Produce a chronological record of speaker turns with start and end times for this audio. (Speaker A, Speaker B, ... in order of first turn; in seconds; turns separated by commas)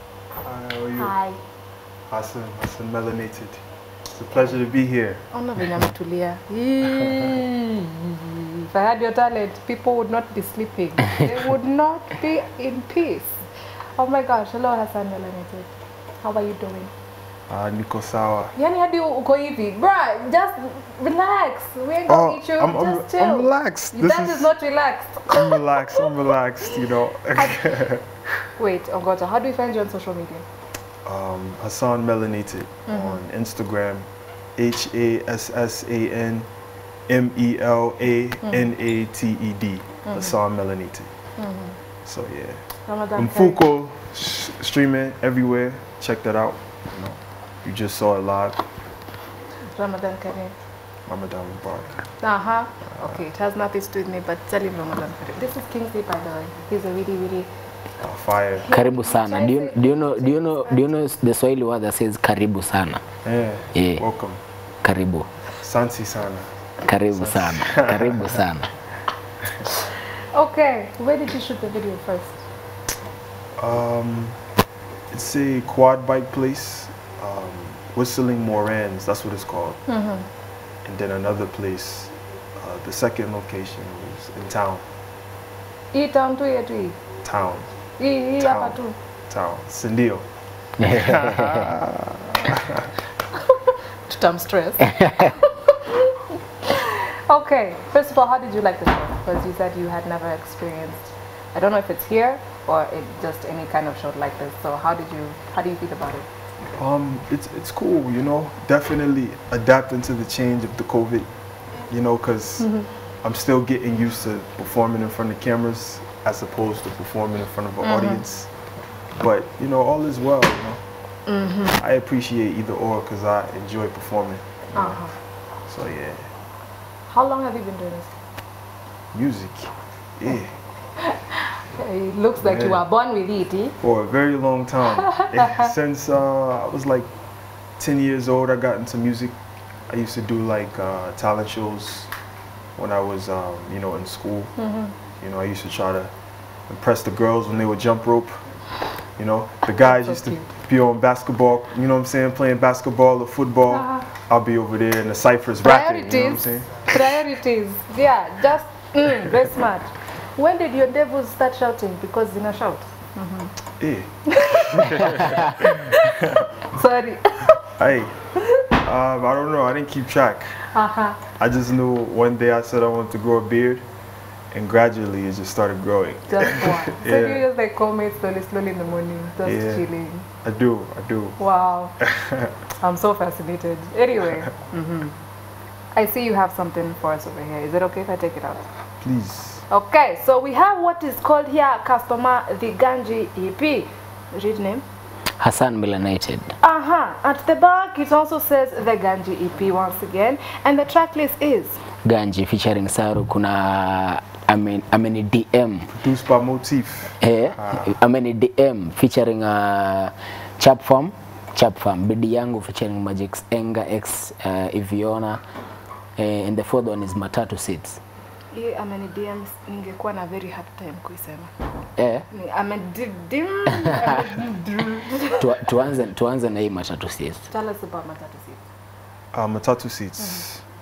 Speaker A: 0.4-1.2, Speaker B: 1.0-1.4, Speaker A: 2.1-3.6, Speaker A: 4.1-5.2, Speaker B: 5.3-13.4, Speaker A: 7.0-7.4, Speaker B: 14.0-15.7, Speaker B: 16.2-16.9, Speaker A: 17.5-18.5, Speaker B: 18.6-27.6, Speaker A: 22.1-24.5, Speaker A: 25.3-28.1, Speaker B: 28.6-30.4, Speaker A: 31.1-36.5, Speaker B: 32.9-33.2, Speaker A: 37.1-41.1, Speaker B: 40.0-40.4, Speaker B: 41.4-41.8, Speaker A: 42.1-42.6, Speaker B: 42.9-43.6, Speaker A: 43.2-48.6, Speaker B: 49.7-50.5, Speaker A: 51.1-52.1, Speaker B: 52.2-57.5, Speaker A: 52.9-53.2, Speaker A: 58.0-58.7, Speaker B: 58.6-60.9, Speaker C: 58.7-63.0, Speaker A: 63.2-64.4, Speaker C: 63.8-64.0, Speaker C: 64.8-65.3, Speaker A: 65.6-66.5, Speaker C: 66.8-68.7, Speaker A: 67.1-68.4, Speaker B: 69.7-72.4, Speaker A: 73.6-74.4, Speaker A: 75.1-79.8, Speaker B: 79.9-80.3, Speaker A: 80.8-84.9, Speaker B: 85.9-87.0, Speaker A: 87.2-87.7, Speaker B: 88.0-89.0, Speaker A: 88.4-88.8, Speaker A: 89.3-90.3, Speaker C: 90.8-91.7, Speaker A: 90.8-92.9, Speaker B: 93.3-106.3, Speaker C: 94.9-95.3, Speaker A: 106.6-111.3, Speaker A: 111.9-112.7, Speaker B: 112.6-112.9, Speaker A: 113.2-118.5, Speaker B: 117.8-118.2, Speaker A: 119.2-120.8, Speaker B: 121.3-121.8, Speaker A: 121.8-125.0, Speaker B: 124.8-125.2, Speaker A: 125.7-126.3, Speaker B: 127.1-128.1, Speaker A: 129.1-130.5, Speaker B: 131.0-133.8, Speaker A: 132.4-132.8, Speaker A: 133.8-137.1, Speaker B: 135.1-135.7, Speaker A: 137.8-139.3, Speaker A: 139.9-142.1, Speaker A: 142.8-144.5, Speaker B: 144.6-144.9, Speaker A: 145.2-146.1, Speaker A: 146.7-148.3, Speaker A: 149.2-157.2, Speaker B: 149.7-150.5, Speaker B: 153.7-154.1, Speaker B: 155.6-163.5, Speaker A: 163.8-166.5, Speaker B: 164.3-167.6, Speaker A: 167.6-168.2, Speaker A: 168.8-170.5, Speaker B: 170.7-171.2, Speaker A: 171.4-173.8, Speaker A: 174.5-177.4, Speaker B: 176.3-180.3, Speaker A: 179.4-179.9, Speaker A: 180.4-181.4, Speaker B: 181.4-181.9, Speaker A: 182.0-182.5, Speaker B: 182.8-185.2, Speaker B: 185.9-188.7, Speaker A: 189.0-189.6, Speaker B: 189.7-194.8, Speaker C: 195.4-196.5, Speaker B: 196.6-201.8, Speaker C: 202.0-205.9, Speaker A: 205.9-207.9, Speaker C: 207.2-215.4, Speaker C: 216.2-218.0, Speaker B: 218.5-221.5, Speaker C: 222.0-222.2, Speaker B: 222.3-225.5, Speaker C: 225.4-227.5, Speaker B: 227.5-228.6, Speaker A: 229.3-230.6, Speaker B: 230.2-230.4